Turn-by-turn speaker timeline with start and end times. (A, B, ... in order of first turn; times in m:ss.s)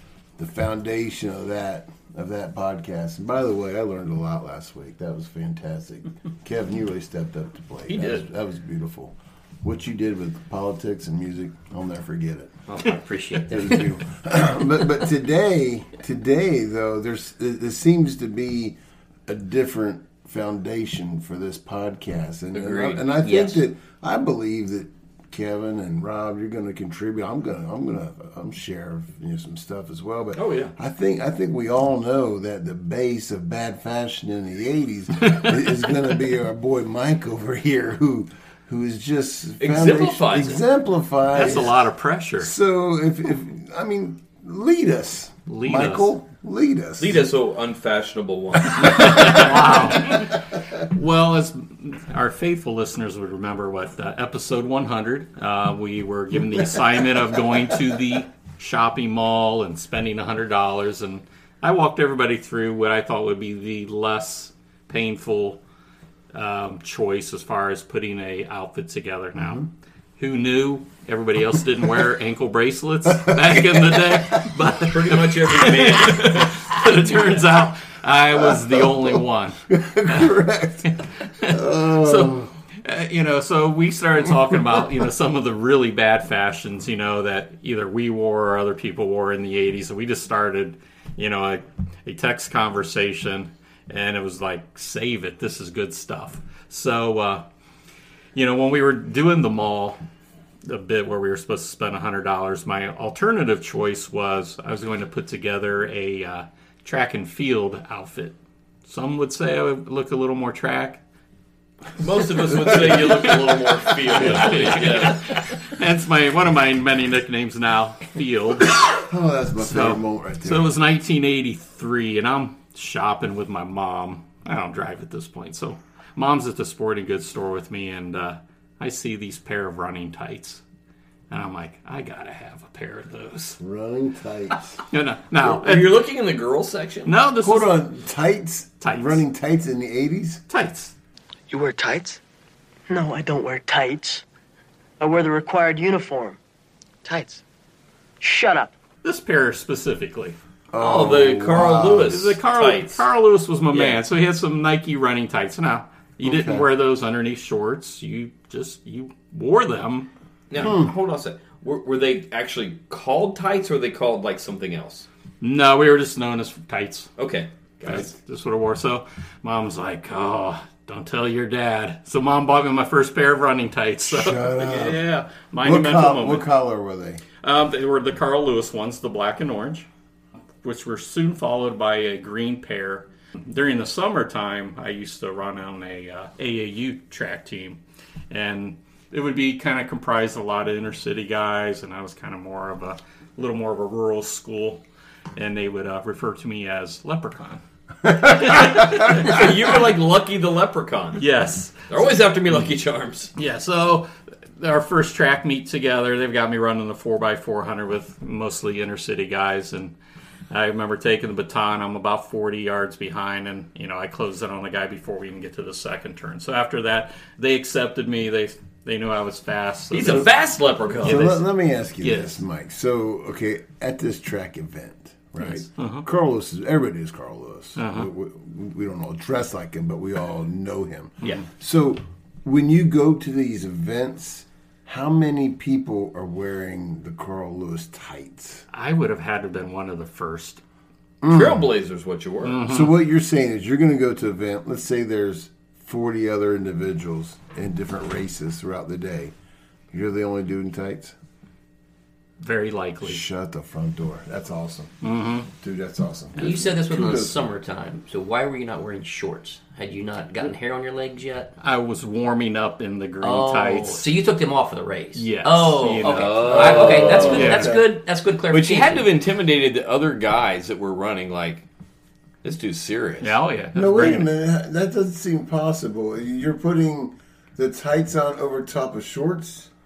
0:00.4-0:12.6 A
0:07.9-0:08.2 B
0:12.7-0:13.9 C
0:13.5-0:41.9 A
0:22.5-0:23.0 B
0:23.2-0:23.6 C
0:30.3-0:30.7 B
0:39.6-0:40.6 B
0:41.3-0:42.5 D
0:42.4-0:47.2 A
0:45.5-0:46.1 D
0:47.0-0:50.2 B
0:48.8-0:50.3 D
0:50.9-1:05.6 D
1:06.3-1:19.6 D
1:13.2-1:14.2 A
1:14.8-1:16.7 B
1:18.4-1:22.5 A
1:21.4-1:37.4 D
1:38.3-1:40.0 D
1:40.6-1:51.0 D
1:52.0-1:55.4 B
1:52.5-1:53.6 A
1:54.1-1:54.7 A
1:54.1-1:58.8 D
1:58.7-2:00.8 A
1:59.6-2:10.6 D
2:11.3-2:13.6 D
2:13.6-2:14.8 A
2:14.9-2:16.0 D
2:15.4-2:17.1 B
2:17.0-2:17.8 D
2:17.4-2:20.4 A
2:18.8-2:19.2 D
2:20.5-2:20.9 D
2:21.5-2:22.2 E
2:22.9-2:24.2 E
2:25.0-2:26.4 E
2:27.0-2:27.4 E
2:28.2-2:28.7 E
2:29.0-2:30.4 D
2:30.7-2:32.3 A
2:30.8-2:33.0 B
2:32.1-2:40.1 D
2:33.7-2:34.0 B
2:36.2-2:36.7 A
2:40.5-2:45.1 B
2:40.6-2:40.9 A
2:45.4-2:47.1 D
2:47.2-2:48.1 B
2:47.8-2:56.5 D
2:54.1-2:55.0 A
2:55.6-2:57.2 A
2:57.4-2:59.9 D
3:00.6-3:14.8 D
3:15.4-3:17.6 D
3:18.3-3:21.2 B
3:18.4-3:19.4 D
3:21.2-3:21.9 D
3:21.9-3:23.3 B
3:23.4-3:29.9 D
3:30.5-3:40.3 D
3:39.9-3:41.4 B
3:41.0-3:41.4 D
3:41.0-3:58.6 A
3:42.0-3:42.4 D
3:45.8-3:46.0 D
3:47.8-3:48.1 D
3:58.7-4:00.6 D
4:01.2-4:01.7 A
4:01.3-4:02.7 B
4:02.4-4:02.9 D
4:02.6-4:09.3 A
4:09.9-4:11.1 A
4:12.4-4:13.2 D
4:13.0-4:14.9 A
4:15.0-4:15.5 D
4:15.6-4:17.4 A
4:16.4-4:21.5 C
4:21.6-4:24.1 D
4:23.2-4:29.1 C
4:25.1-4:27.8 D
4:26.0-4:27.7 B
4:26.5-4:27.8 A
4:28.5-4:31.6 B
4:32.4-4:33.4 B
4:33.2-4:34.3 D
4:33.7-4:39.7 A